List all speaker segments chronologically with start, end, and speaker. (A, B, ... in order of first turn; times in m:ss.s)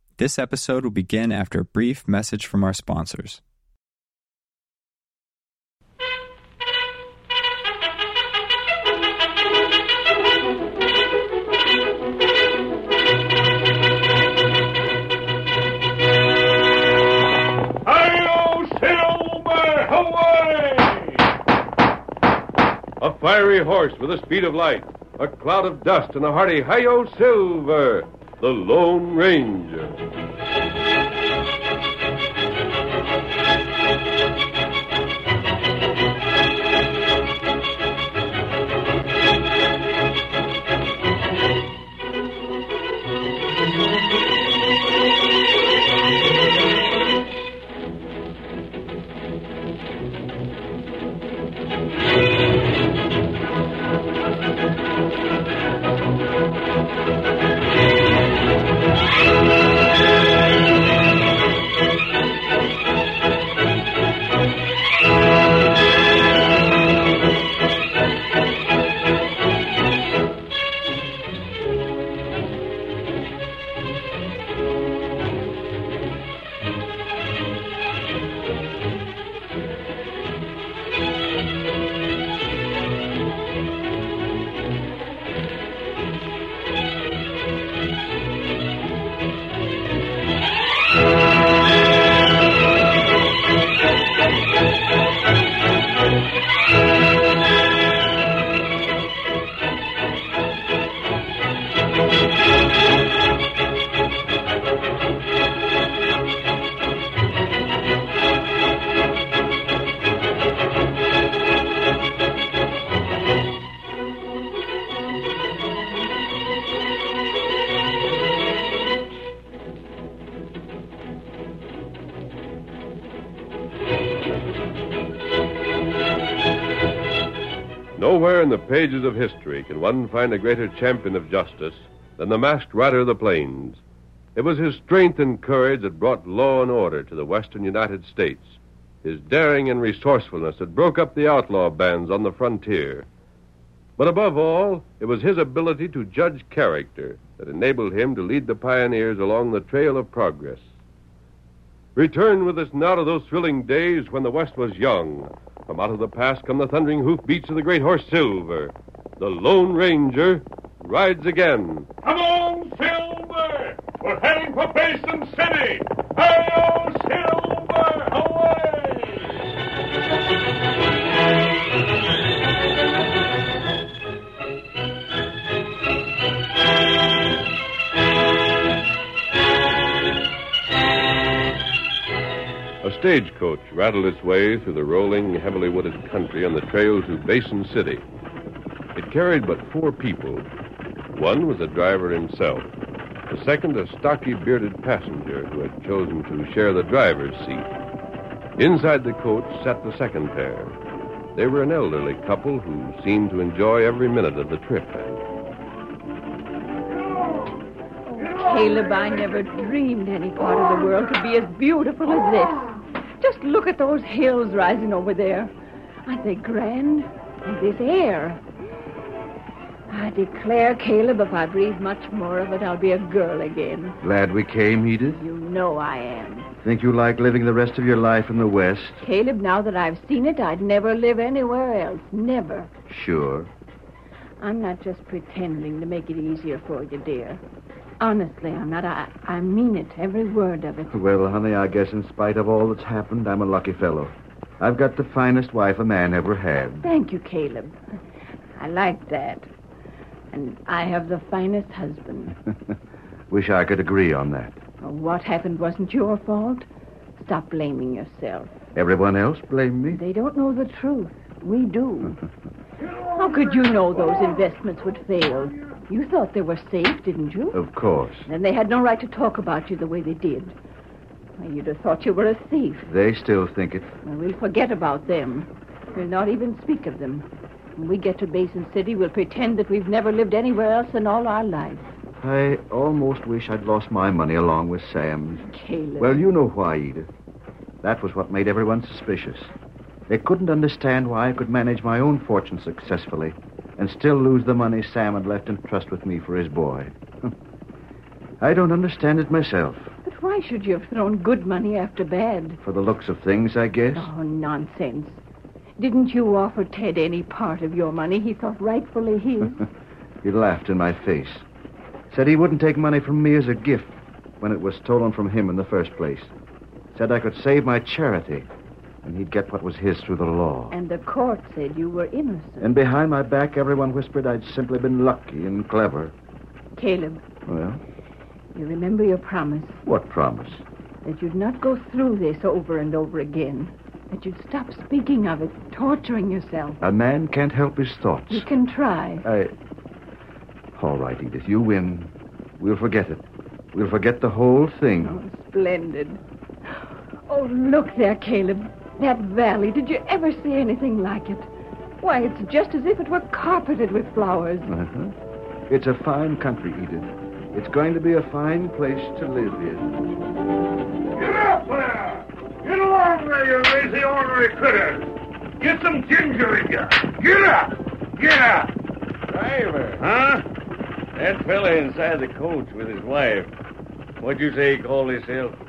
0:00.2-0:03.4 A
0:17.8-0:21.2 B
0:23.0-0:30.0 B
2:08.0-2:13.8 B
2:14.3-2:23.0 B
2:24.0-2:30.6 B
2:31.9-2:41.9 B
2:42.0-2:45.4 C
2:43.0-2:43.8 B
2:45.0-2:49.4 B
2:46.9-2:47.8 C
3:02.8-3:08.0 B
3:08.9-3:10.5 B
3:11.1-3:12.7 B
3:13.3-3:17.7 B
3:18.6-3:20.7 B
3:21.3-3:25.2 B
3:28.2-3:35.5 D
3:36.0-3:38.4 D
3:39.9-3:44.0 D
3:44.0-3:45.2 E
3:45.1-3:46.5 D
3:46.6-3:49.0 E
3:49.0-3:52.7 D
3:52.9-3:53.5 E
3:54.4-3:57.4 D
3:58.0-4:01.0 D
4:00.9-4:06.9 E
4:06.8-4:07.8 D
4:08.6-4:09.5 D
4:10.3-4:12.3 D
4:13.3-4:14.6 E
4:14.8-4:16.7 D
4:17.2-4:18.5 D
4:18.7-4:20.0 E
4:19.9-4:22.2 D
4:23.1-4:27.6 D
4:27.5-4:28.3 E
4:28.2-4:30.6 D
4:31.4-4:32.9 D
4:32.9-4:33.9 E
4:34.0-4:41.9 D
4:42.2-4:45.5 E
4:45.4-4:46.3 D
4:46.0-4:47.1 E
4:47.8-4:49.5 E
4:50.1-4:57.3 E
4:58.4-4:59.9 E
5:00.0-5:02.6 D
5:02.6-5:04.1 E
5:03.9-5:05.2 D
5:05.8-5:09.7 D
5:10.2-5:11.4 E
5:12.1-5:16.3 E
5:16.9-5:18.5 E
5:19.0-5:20.7 E
5:20.7-5:22.7 D
5:22.6-5:26.1 E
5:26.8-5:27.2 D
5:27.4-5:27.8 E
5:28.5-5:29.8 D
5:29.8-5:30.6 E
5:31.0-5:36.8 D
5:36.8-5:38.5 E
5:38.3-5:39.2 D
5:39.2-5:39.5 E
5:40.7-5:45.2 E
5:45.0-5:46.2 D
5:47.3-5:51.5 D
5:52.0-5:54.7 D
5:54.7-5:55.1 E
5:55.7-6:00.0 E
6:01.2-6:08.7 C
6:09.3-6:10.0 F
6:10.0-6:10.4 C
6:11.1-6:13.5 F
6:14.2-6:15.6 F